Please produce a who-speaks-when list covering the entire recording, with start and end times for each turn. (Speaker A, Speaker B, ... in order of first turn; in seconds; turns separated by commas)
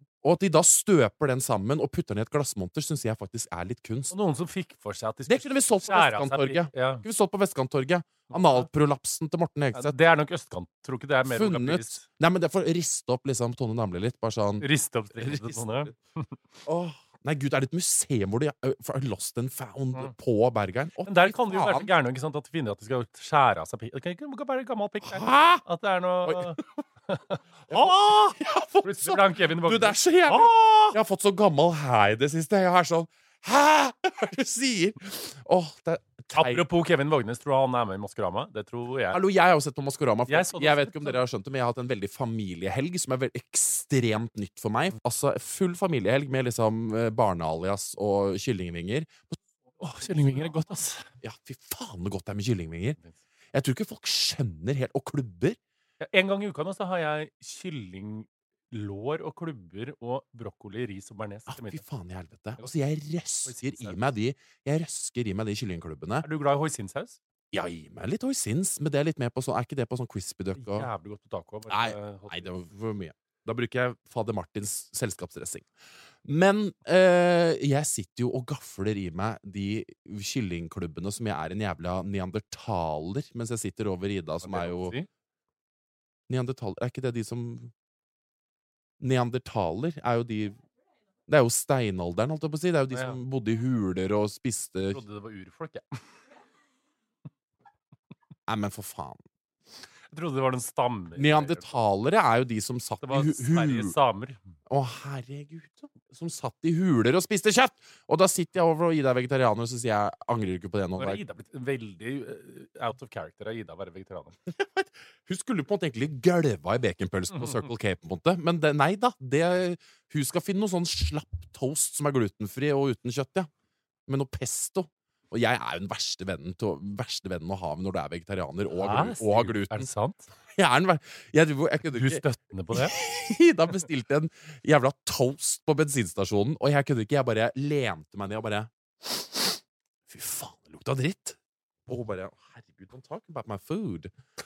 Speaker A: 0.2-4.1, Speaker B: 4.1-7.0, Speaker A: 5.3-10.0, Speaker B: 8.3-8.7, Speaker B: 9.7-12.1, Speaker A: 11.2-15.9, Speaker B: 14.6-16.4, Speaker A: 16.7-21.9, Speaker B: 21.0-28.1, Speaker A: 25.0-25.6, Speaker A: 26.2-26.6, Speaker A: 27.7-36.6, Speaker B: 28.8-30.5, Speaker B: 36.3-39.2, Speaker A: 39.1-49.4, Speaker B: 40.3-41.2, Speaker B: 49.8-51.1, Speaker A: 51.2-53.0, Speaker A: 53.5-55.6, Speaker B: 56.0-61.8, Speaker A: 61.5-66.3, Speaker B: 63.5-64.0, Speaker B: 66.2-67.2, Speaker A: 67.5-70.9, Speaker B: 70.6-72.6, Speaker A: 71.7-75.7, Speaker A: 76.2-85.0, Speaker B: 84.4-85.1, Speaker A: 86.3-87.7, Speaker A: 89.0-90.6, Speaker A: 91.3-95.0, Speaker B: 92.9-93.2, Speaker B: 94.9-96.0, Speaker A: 98.5-99.2, Speaker B: 100.1-101.7, Speaker A: 101.2-104.0, Speaker B: 103.0-104.4, Speaker A: 104.7-111.2, Speaker B: 111.0-114.4, Speaker A: 114.5-123.5, Speaker B: 117.3-117.7, Speaker A: 124.1-129.9, Speaker B: 128.8-130.3, Speaker A: 130.5-144.1, Speaker B: 131.9-133.0